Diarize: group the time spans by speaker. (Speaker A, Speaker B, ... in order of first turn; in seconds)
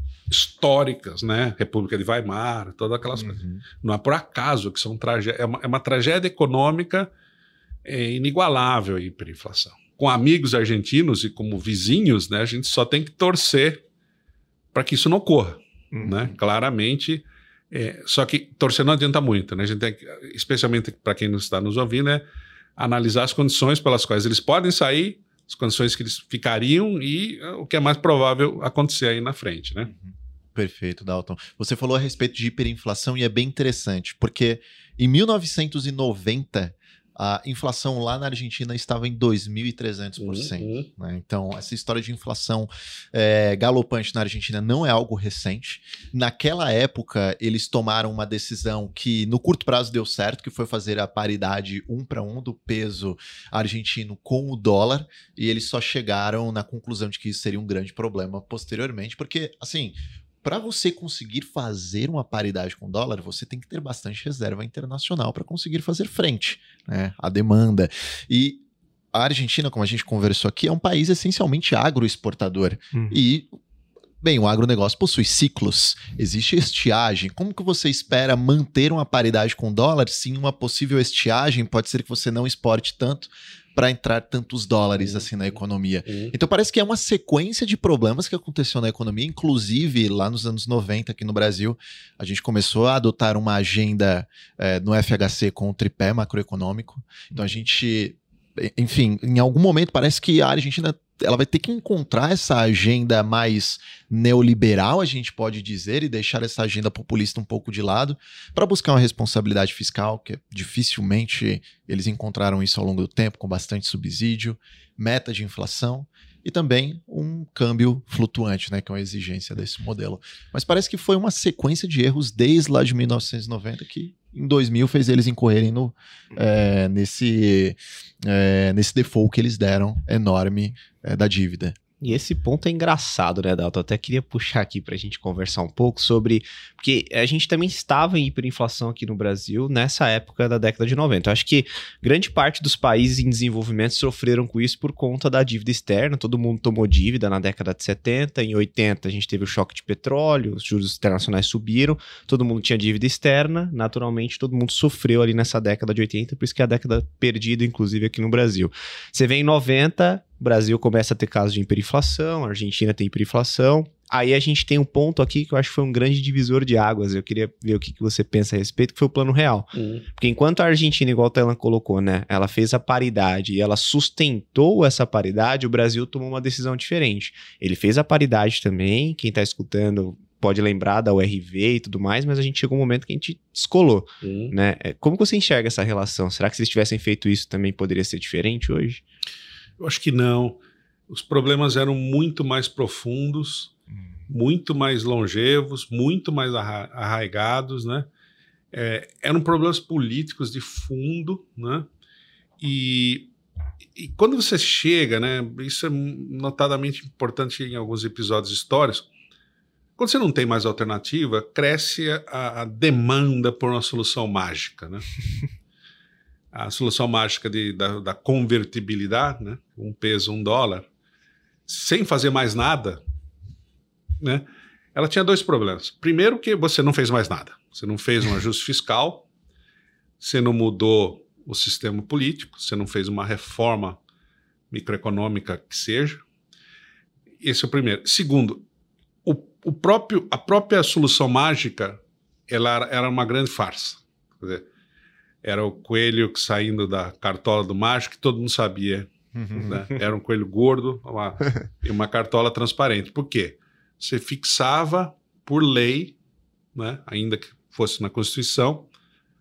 Speaker A: 0.3-7.1, 7.8-13.8, 14.7-22.2, 22.8-29.9, 40.2-40.9, 86.1-86.3, 169.7-170.0, 184.2-184.5, 189.8-193.7, 194.3-198.1, 198.7-201.8, 202.6-203.3, 203.9-209.1, 210.0-215.2, 216.5-220.9, 221.7-223.0, 224.2-229.2, 230.2-234.0, 234.7-236.2, 237.4-238.6, 239.2-244.6, 245.4-256.1, 256.7-258.9
Speaker B: 3.2-3.6, 29.9-68.6, 69.1-73.5, 74.2-131.8, 249.3-249.7
Speaker C: 72.9-73.2, 132.0-189.0